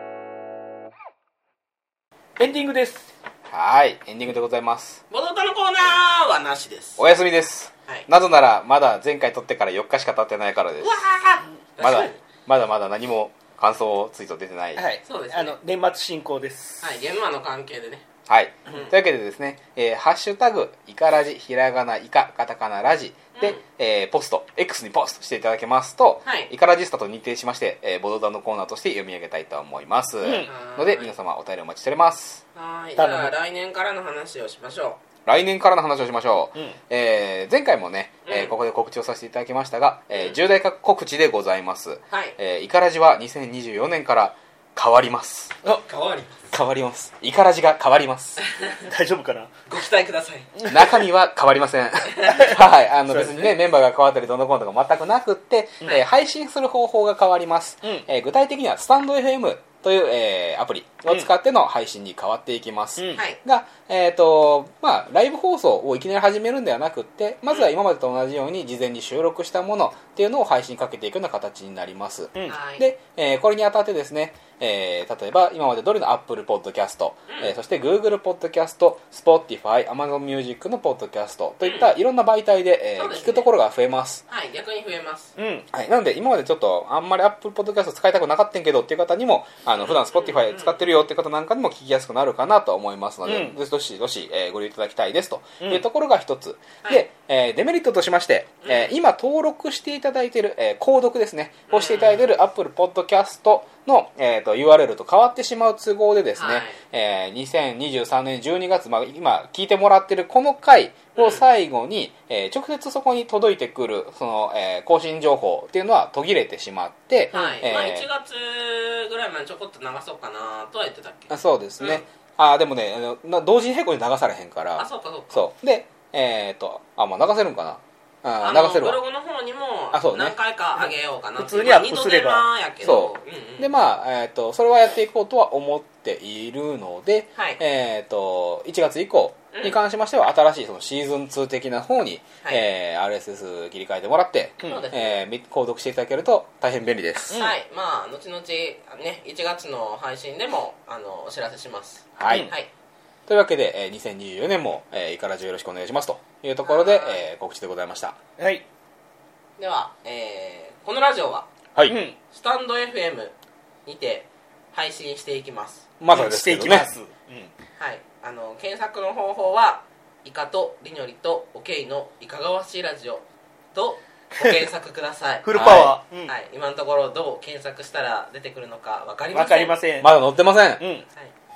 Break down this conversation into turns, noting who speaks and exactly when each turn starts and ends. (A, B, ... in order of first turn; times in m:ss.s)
0:02.4-0:03.1 A
0:03.5-0:05.0 B
0:05.1-0:07.0 C
0:07.0-0:11.0 B
0:10.8-0:12.2 C
0:11.8-0:14.8 B
0:14.8-0:17.0 A
0:15.0-0:15.5 C
0:16.8-0:18.0 C
0:18.3-0:32.4 B
0:23.4-0:23.6 C
0:26.2-0:26.5 C
0:30.2-0:30.5 A
0:30.3-0:31.1 C
0:32.5-0:35.0 C
0:33.0-0:33.3 A
0:35.2-0:45.5 B
0:38.2-0:38.5 C
0:42.1-0:42.3 C
0:45.8-0:46.5 C
0:46.5-0:48.4 B
0:48.4-0:48.9 C
0:48.9-0:49.5 A
0:49.7-0:50.5 C
0:50.6-0:51.0 A
0:50.7-1:24.2 B
0:52.2-0:52.4 C
0:52.3-0:53.5 A
1:03.0-1:03.2 A
1:12.4-1:12.8 C
1:21.6-1:21.9 C
1:22.9-1:23.5 C
1:24.3-1:25.3 C
1:25.4-1:25.7 A
1:25.7-1:58.0 B
1:29.9-1:30.9 C
1:33.2-1:33.6 A
1:38.6-1:38.9 C
1:41.7-1:42.3 C
1:46.4-1:46.8 C
1:51.1-1:51.4 C
1:57.3-2:02.0 C
2:01.3-2:09.0 B
2:04.8-2:05.5 C
2:08.4-2:13.7 C
2:09.9-2:10.4 B
2:10.8-2:12.5 A
2:12.8-2:27.4 B
2:24.6-2:25.2 C
2:27.3-2:32.7 C
2:32.2-2:32.5 B
2:32.3-2:32.5 A
2:33.3-2:38.2 B
2:36.6-2:37.2 C
2:38.4-2:38.6 A
2:39.6-2:41.5 C
2:41.9-2:42.2 A
2:42.3-2:43.3 C
2:43.8-2:45.9 C
2:46.0-2:46.9 B
2:46.1-2:47.5 A
2:47.8-2:59.8 C
2:55.4-2:56.3 A
2:55.5-2:55.9 B
2:59.3-3:00.1 A
3:00.0-3:00.8 B
3:00.8-3:01.0 A